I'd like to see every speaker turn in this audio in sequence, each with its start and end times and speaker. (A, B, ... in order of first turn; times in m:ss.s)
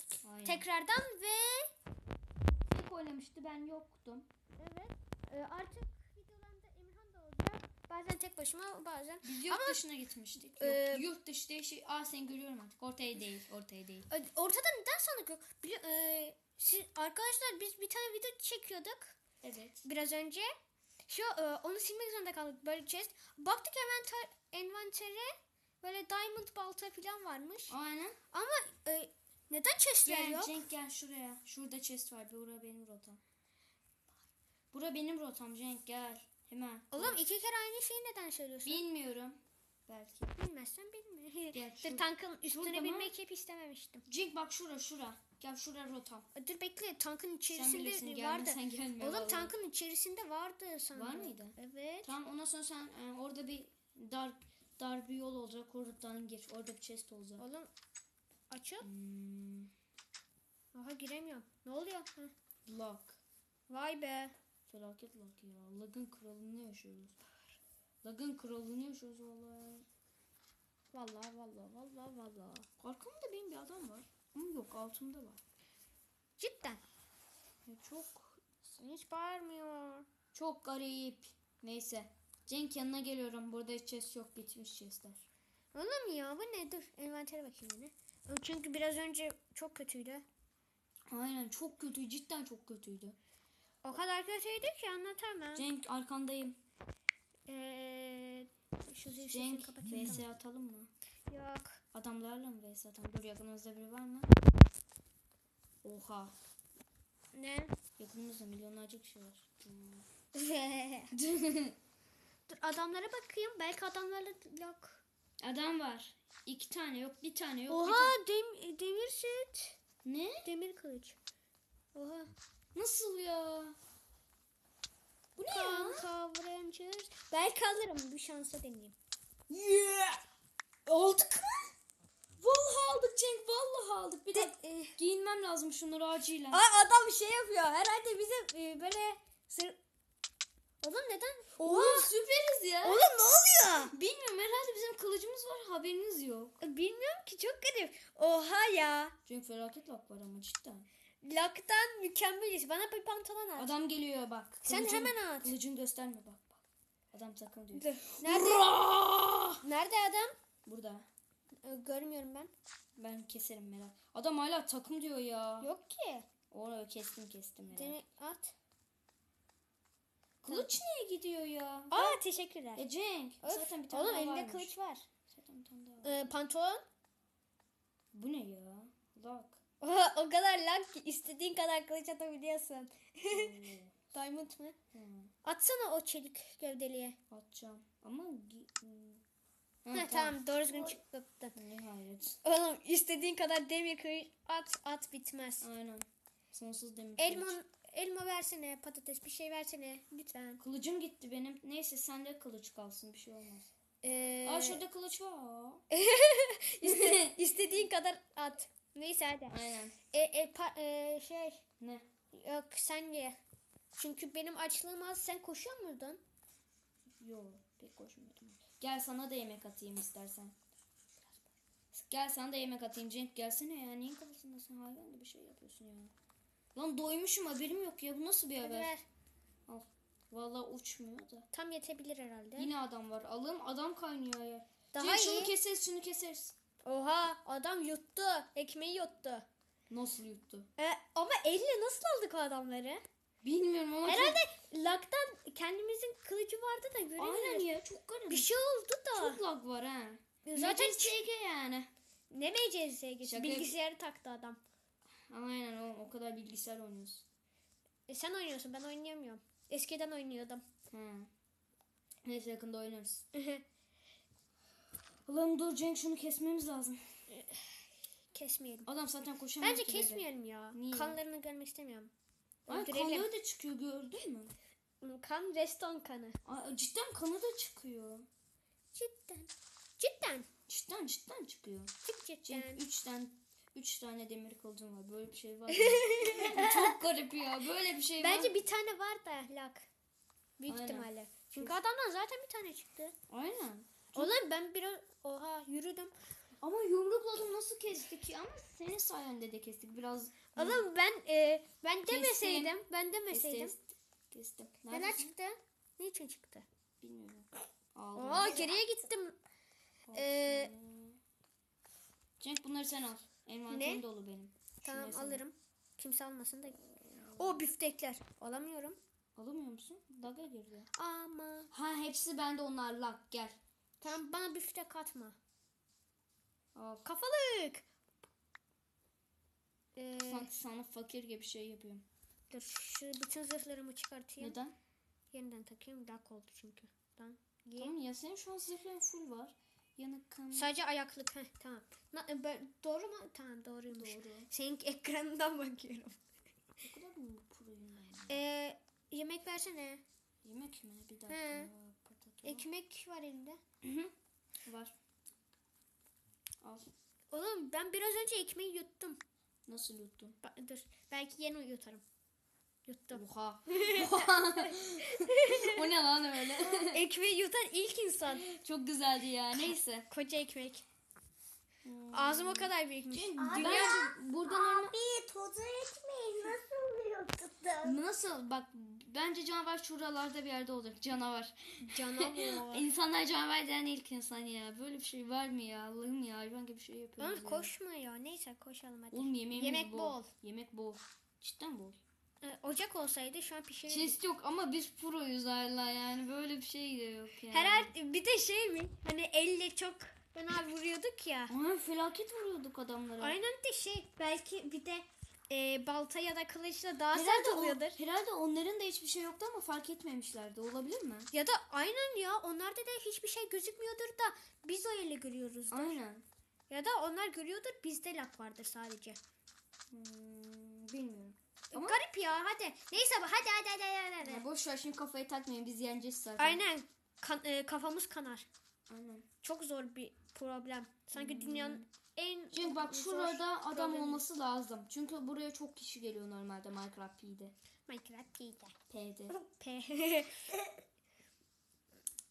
0:00.2-0:00.6 A
0:00.4-0:01.7 B
0:02.4-0:04.3 A
0:04.6-0:09.8 B
0:09.2-0:14.1 A
0:10.6-0:11.0 B
0:14.1-0:19.2 B
0:19.4-0:19.8 A
0:19.8-0:20.5 B
0:21.1-0:27.7 B
0:27.7-0:28.2 A
0:28.3-0:30.5 B
0:30.0-0:33.2 A
0:34.7-0:37.2 A
0:36.9-0:38.8 B
0:38.6-0:40.3 A
0:40.3-0:44.0 B
0:41.5-0:43.1 A
0:44.1-0:46.3 A
0:46.3-0:52.1 B
0:47.5-0:49.5 A
0:50.9-0:57.4 A
0:57.4-0:57.7 B
0:58.5-0:58.9 B
0:58.8-0:59.7 A
1:00.7-1:02.3 B
1:02.6-1:03.2 A
1:03.7-1:04.3 B
1:04.7-1:09.8 A
1:10.9-1:12.7 B
1:12.8-1:15.4 A
1:16.4-1:16.8 B
1:17.6-1:18.4 A
1:18.8-1:20.0 B
1:20.3-1:25.2 A
1:25.7-1:30.2 B
1:31.1-1:33.2 A
1:33.8-1:35.6 B
1:35.5-1:36.6 A
1:37.5-1:40.2 B
1:39.3-1:40.9 A
1:41.3-1:41.8 B
1:41.9-1:44.3 A
1:45.8-1:46.3 A
1:47.3-1:47.7 B
1:48.0-1:50.0 A
1:50.3-1:51.1 B
1:51.1-1:51.8 A
1:52.5-1:55.0 B
1:55.4-1:58.2 A
1:57.7-1:59.8 B
2:00.0-2:00.4 A
2:00.4-2:01.2 B
2:01.9-2:02.3 B
2:02.7-2:03.8 A
2:05.4-2:06.1 A
2:05.5-2:08.9 B
2:09.5-2:10.2 A
2:10.9-2:11.7 A
2:12.4-2:16.6 A
2:14.3-2:15.0 B
2:16.5-2:19.8 B
2:20.8-2:22.1 B
2:21.6-2:23.1 A
2:22.8-2:23.9 B
2:23.8-2:26.6 A
2:26.6-2:29.1 B
2:29.2-2:30.9 A
2:31.2-2:33.7 B
2:33.6-2:39.6 A
2:34.6-2:35.5 B
2:37.7-2:38.7 B
2:39.6-2:40.3 B
2:40.6-2:41.1 A
2:41.6-2:42.5 B
2:43.0-2:45.7 A
2:45.6-2:46.3 B
2:46.5-2:48.0 A
2:47.7-2:48.5 B
2:50.4-2:52.2 A
2:51.9-2:52.8 B
2:52.8-2:54.7 A
2:53.4-2:55.0 B
2:55.3-2:56.3 A
2:56.0-2:56.8 B
2:58.1-2:59.6 A
2:59.8-3:04.8 B
3:03.3-3:04.0 A
3:04.9-3:05.3 A
3:05.4-3:07.2 B
3:07.3-3:09.2 A
3:09.8-3:11.0 A
3:09.9-3:11.6 B
3:11.5-3:12.4 A
3:12.4-3:15.7 B
3:15.6-3:17.6 A
3:17.2-3:20.6 B
3:20.6-3:23.7 A
3:24.0-3:24.8 B
3:24.4-3:25.8 A
3:25.9-3:31.6 B
3:26.8-3:27.4 A
3:29.5-3:30.0 A
3:31.8-3:32.0 A
3:32.3-3:33.4 B
3:34.0-3:36.2 B
3:37.2-3:40.5 A
3:41.9-3:46.1 A
3:46.7-3:48.9 A
3:48.6-3:49.0 B
3:49.7-3:51.5 A
3:51.5-3:52.7 B
3:52.6-3:56.5 A
3:54.9-3:55.5 B
3:56.8-3:59.4 B
3:59.9-4:00.7 A
4:00.8-4:03.0 B
4:03.4-4:04.4 A
4:04.0-4:07.7 B
4:07.2-4:08.5 A
4:08.3-4:09.4 B
4:09.1-4:11.9 A
4:10.4-4:11.2 B
4:12.3-4:14.6 B
4:13.2-4:13.7 A
4:15.3-4:17.2 A
4:18.1-4:20.6 B
4:20.9-4:21.3 A
4:22.2-4:23.2 A
4:23.3-4:23.6 B
4:25.2-4:27.0 A
4:27.3-4:28.9 B
4:28.8-4:31.2 A
4:29.6-4:32.1 B
4:32.7-4:33.3 B
4:32.7-4:34.5 A
4:35.0-4:36.4 B
4:36.4-4:38.3 A
4:38.9-4:40.5 B
4:40.7-4:41.9 A
4:42.0-4:42.8 B
4:42.4-4:48.5 A
4:45.7-4:46.9 B
4:48.2-4:49.8 B
4:50.6-4:53.1 B
4:50.7-4:51.8 A
4:53.3-4:54.4 A
4:54.1-4:56.1 B
4:56.6-5:00.8 A
5:00.5-5:03.7 B
5:02.1-5:02.8 A
5:03.3-5:05.3 A
5:04.9-5:06.6 B
5:07.0-5:08.7 A
5:08.1-5:09.4 B
5:10.0-5:11.2 A
5:10.1-5:10.7 B
5:12.4-5:15.4 A
5:13.7-5:14.0 B
5:14.8-5:16.8 B
5:16.9-5:17.6 A
5:17.4-5:19.0 B
5:19.4-5:20.9 A
5:20.9-5:21.7 B
5:21.7-5:23.6 A
5:24.0-5:25.4 B
5:26.7-5:27.1 A
5:27.0-5:27.8 B
5:29.9-5:30.5 B
5:30.2-5:32.0 A
5:32.5-5:34.6 B
5:34.4-5:34.7 A
5:35.3-5:37.9 B
5:37.8-5:40.7 A
5:40.5-5:46.2 B
5:43.9-5:44.5 A
5:46.8-5:48.4 A
5:48.3-5:50.0 B
5:50.4-5:52.6 A
5:51.3-5:51.7 B
5:52.4-5:53.6 B
5:53.8-5:54.1 A
5:54.6-5:54.9 A
5:56.6-5:56.9 A
5:57.3-5:59.2 B
5:59.7-6:00.4 A
6:00.4-6:02.0 B
6:02.8-6:05.8 B
6:03.1-6:07.0 A
6:06.7-6:08.4 B
6:08.3-6:10.1 A
6:09.5-6:10.8 B
6:11.8-6:14.9 A
6:12.1-6:14.0 B
6:13.4-6:17.9 C
6:17.8-6:27.7 A
6:21.8-6:22.8 B
6:27.2-6:30.3 B
6:29.1-6:32.0 A
6:32.4-6:34.2 B
6:33.9-6:37.9 A
6:37.5-6:41.5 B
6:41.5-6:43.4 A
6:43.2-6:48.0 B
6:47.1-6:51.3 A
6:51.3-6:56.0 B
6:55.7-6:56.2 A
6:56.7-6:59.2 B
6:59.9-7:02.0 A
7:01.7-7:04.4 B
7:04.2-7:06.6 A
7:06.4-7:08.5 B
7:08.9-7:09.3 A
7:09.4-7:14.2 B
7:11.1-7:11.8 A
7:12.5-7:17.5 A
7:17.9-7:18.7 B
7:18.9-7:19.3 A
7:19.3-7:20.6 B